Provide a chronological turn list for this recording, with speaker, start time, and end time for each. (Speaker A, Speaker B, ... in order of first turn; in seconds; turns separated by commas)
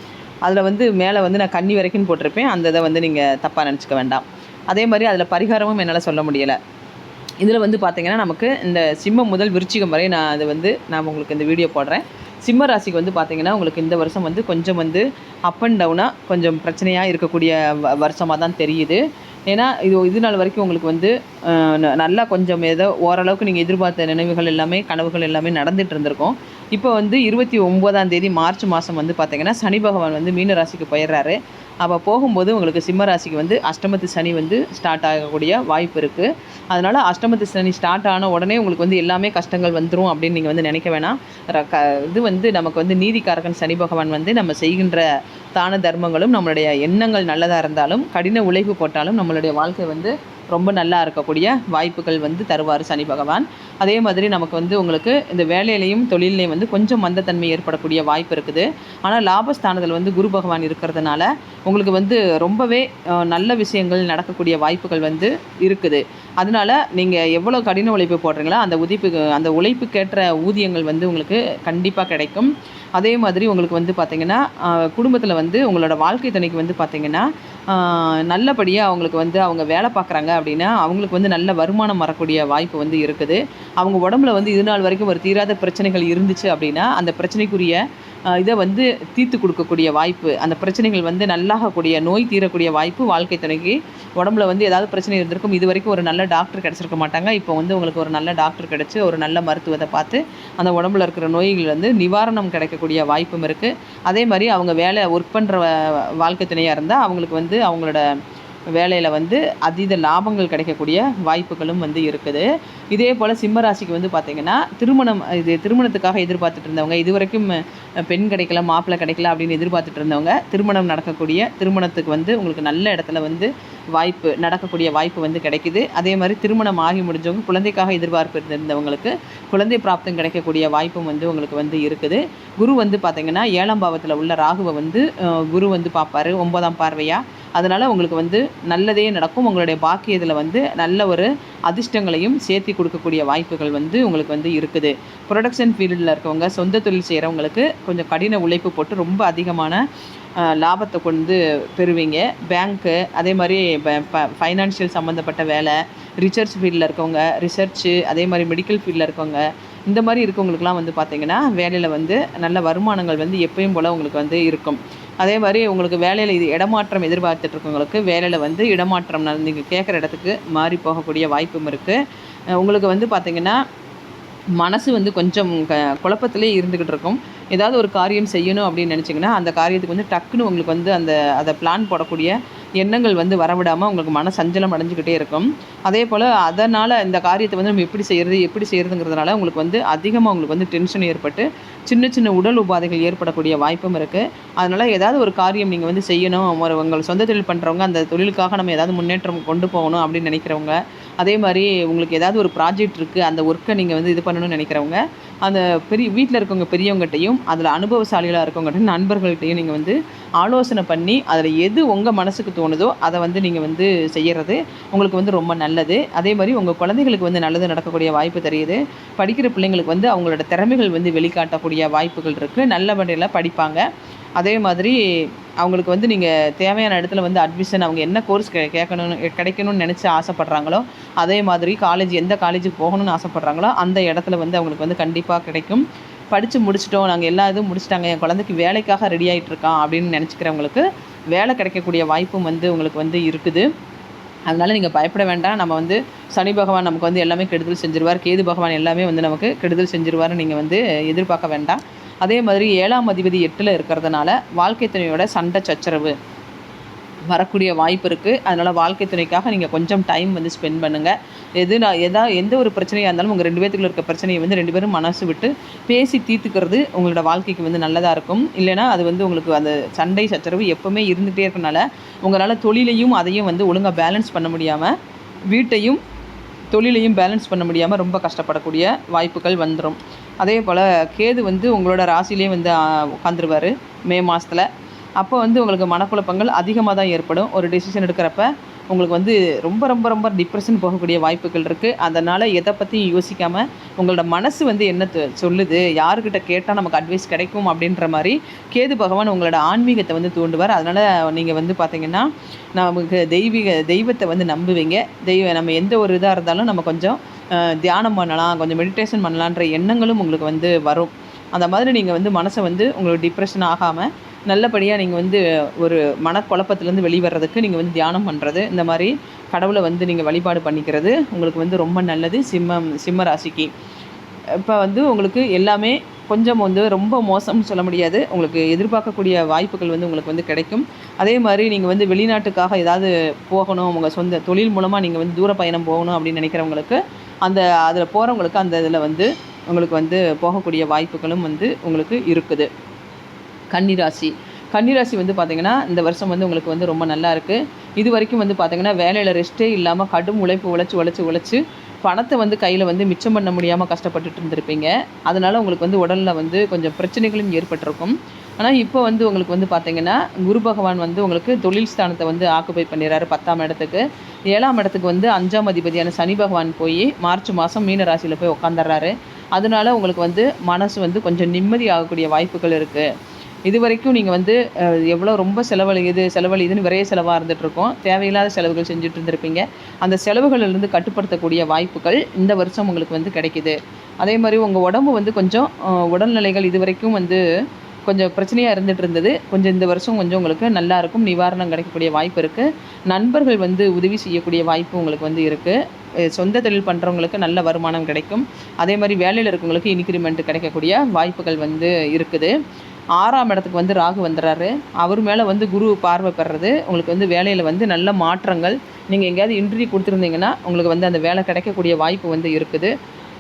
Speaker A: 0.5-6.6, Speaker A: 7.4-108.0, Speaker A: 108.7-149.8, Speaker A: 150.4-172.0, Speaker A: 172.6-173.6, Speaker A: 174.6-223.8, Speaker A: 224.4-243.7, Speaker A: 244.5-256.1, Speaker A: 257.3-274.9, Speaker A: 275.5-276.0, Speaker A: 276.7-284.7, Speaker A: 285.2-323.7, Speaker A: 324.6-342.7, Speaker A: 343.7-373.1, Speaker A: 373.7-387.4, Speaker A: 388.1-402.5, Speaker A: 403.2-412.9